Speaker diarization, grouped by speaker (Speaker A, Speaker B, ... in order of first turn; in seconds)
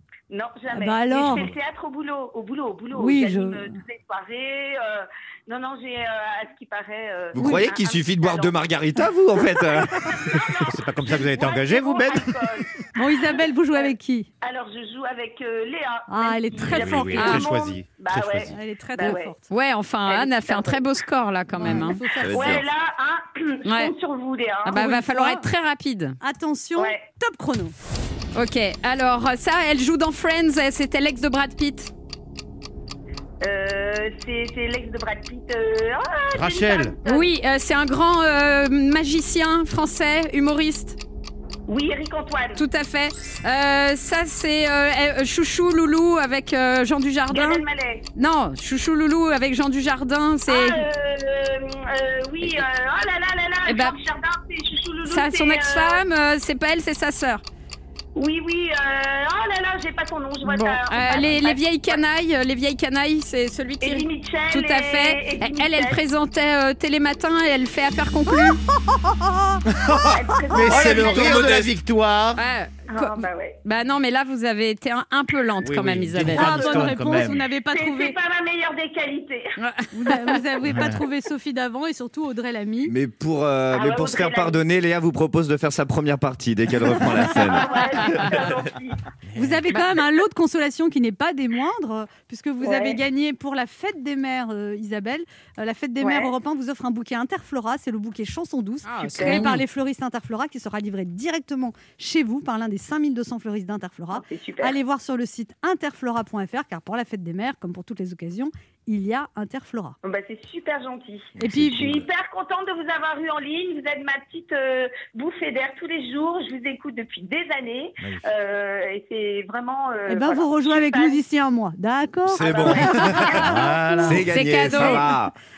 Speaker A: 0.3-8.7, 9.7-19.3, 20.1-20.8, 21.6-24.8, 26.8-27.0, 33.4-37.3, 41.7-42.6, 47.3-48.0, 50.5-56.0, 58.1-62.0, 63.8-66.0, 70.1-71.5, 72.9-73.6, 76.6-79.5, 83.7-84.6, 87.2-89.0, 92.6-93.0, 96.0-96.3, 99.2-99.5, 104.1-104.8, 110.0-121.2, 122.4-124.0
Speaker B: 0.7-1.5, 2.9-3.7, 7.4-7.6, 12.9-14.3, 16.1-17.4, 18.4-19.4, 21.5-22.6, 24.7-25.4, 26.2-27.7, 68.9-69.6, 76.3-78.2, 79.9-82.9, 89.3-110.0, 111.4-112.0, 120.1-124.2, 124.7-125.0
Speaker C: 7.3-10.4, 22.2-22.6, 70.7-71.7, 82.8-88.5, 122.3-125.3
Speaker D: 10.7-12.4, 16.7-18.5, 36.3-37.0, 69.7-72.4, 75.6-77.4, 123.5-124.2
Speaker E: 17.2-17.4, 19.5-22.0, 23.6-23.9, 24.6-26.2, 28.3-31.9, 37.0-41.0, 42.6-47.6, 48.1-50.8, 53.6-54.0, 55.1-57.4, 60.4-68.6, 72.3-76.9, 79.6-79.9, 98.8-99.6, 124.1-125.1